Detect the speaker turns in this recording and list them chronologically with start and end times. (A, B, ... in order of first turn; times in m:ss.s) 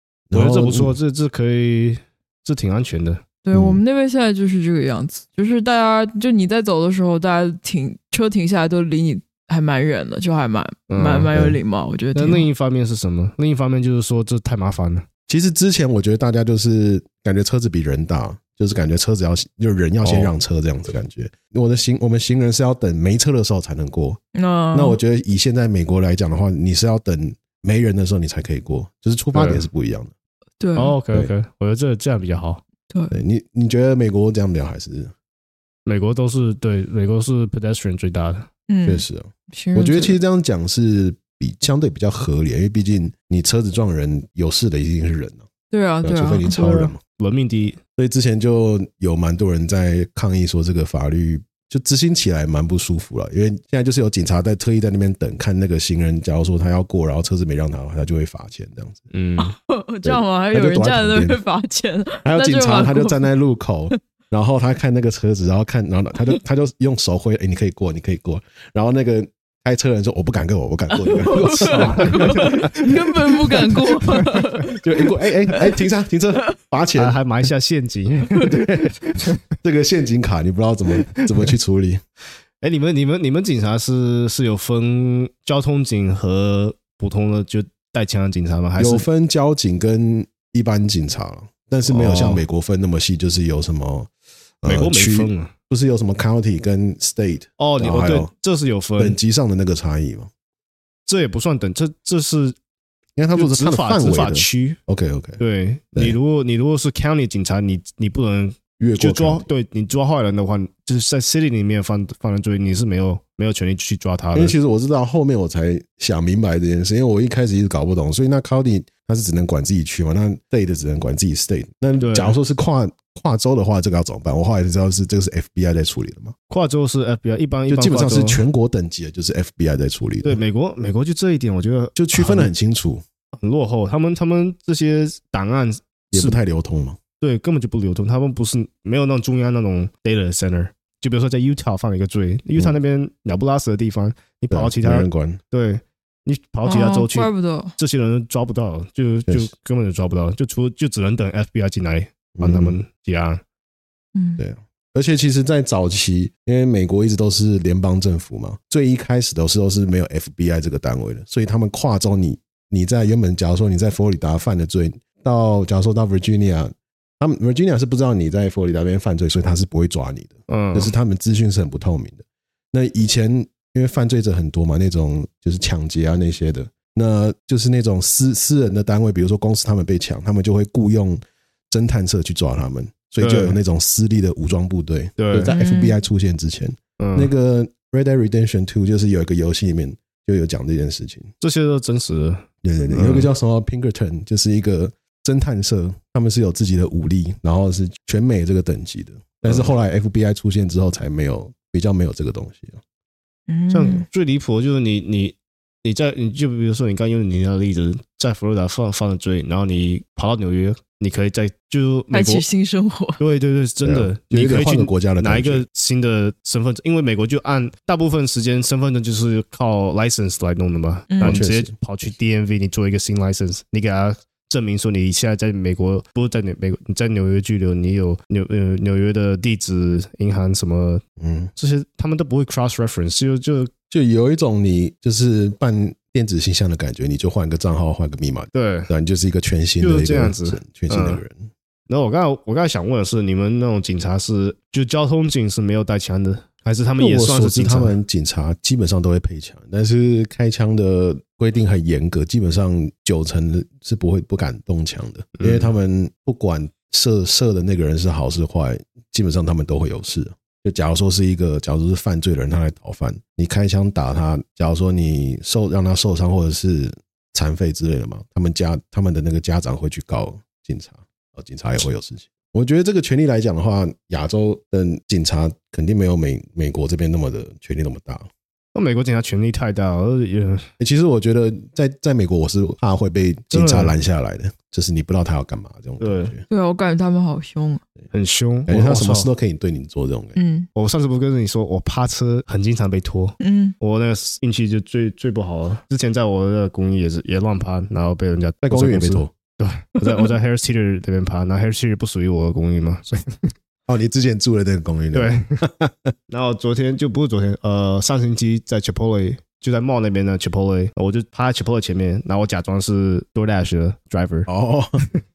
0:00.3-0:01.0 A
0:00.3-0:03.2 B
0:03.4-0:12.5 C
0:03.5-0:03.8 A
0:10.9-0:11.3 B
0:12.1-0:15.1 B
0:15.3-0:24.2 A
0:20.0-0:20.3 B
0:24.3-0:25.0 C
0:24.7-0:30.1 A
0:29.3-0:29.7 B
0:30.6-0:31.0 C
0:30.8-0:32.6 B
0:32.9-0:33.2 C
0:33.1-0:35.1 A
0:35.9-0:38.5 B
0:38.7-0:40.2 C
0:38.9-0:45.5 A
0:45.7-0:46.9 C
0:46.0-0:47.0 A
0:47.2-0:47.8 B
0:48.0-0:59.0 A
0:59.1-0:59.6 B
0:59.4-1:03.2 C
1:00.0-1:01.4 A
1:02.2-1:13.8 A
1:10.9-1:14.8 C
1:11.7-1:12.6 B
1:14.7-1:17.2 A
1:17.0-1:19.4 B
1:18.4-1:19.0 A
1:19.5-1:22.0 A
1:21.0-1:21.5 B
1:22.6-1:29.0 B
1:28.8-1:34.1 A
1:31.9-1:32.4 B
1:34.6-1:38.3 A
1:34.7-1:35.5 B
1:37.6-1:39.2 B
1:39.0-1:40.3 A
1:41.1-1:42.6 B
1:43.2-1:45.4 A
1:43.4-1:44.8 B
1:45.4-1:54.6 B
1:48.8-1:49.5 A
1:54.3-2:06.4 A
2:02.0-2:02.4 B
2:06.5-2:08.4 B
2:07.7-2:10.4 A
2:10.2-2:12.5 B
2:12.0-2:13.0 A
2:13.3-2:16.4 B
2:16.1-2:17.0 A
2:17.2-2:33.4 B
2:24.5-2:25.4 A
2:26.6-2:27.8 C
2:32.4-2:32.8 A
2:34.2-2:34.4 C
2:34.4-3:11.3 A
2:50.5-2:50.9 B
3:03.2-3:03.6 B
3:05.2-3:05.5 B
3:05.5-3:06.0 C
3:07.0-3:07.3 B
3:11.4-3:13.3 B
3:12.6-3:22.8 A
3:19.4-3:19.7 B
3:23.5-3:24.1 C
3:23.7-3:32.4 B
3:32.1-3:33.2 C
3:33.2-3:51.0 B
3:33.8-3:35.7 A
3:41.1-3:41.4 C
3:41.2-3:41.7 A
3:51.2-3:51.5 A
3:51.6-3:53.7 B
3:53.9-4:01.5 A
3:58.5-3:58.9 B
3:59.8-4:01.2 B
4:01.9-4:08.0 B
4:07.0-4:38.3 A
4:15.4-4:15.7 B
4:38.8-4:40.7 B
4:40.8-4:46.4 A
4:43.5-4:43.9 B
4:46.0-4:46.3 B
4:46.5-4:47.8 C
4:48.1-4:49.3 B
4:48.7-4:50.4 A
4:50.4-4:50.7 C
4:50.8-5:03.5 B
4:53.4-4:53.8 C
4:58.6-4:59.3 A
5:00.0-5:00.3 C
5:03.9-5:06.1 A
5:05.1-5:05.5 B
5:06.3-5:14.5 B
5:14.5-5:15.0 A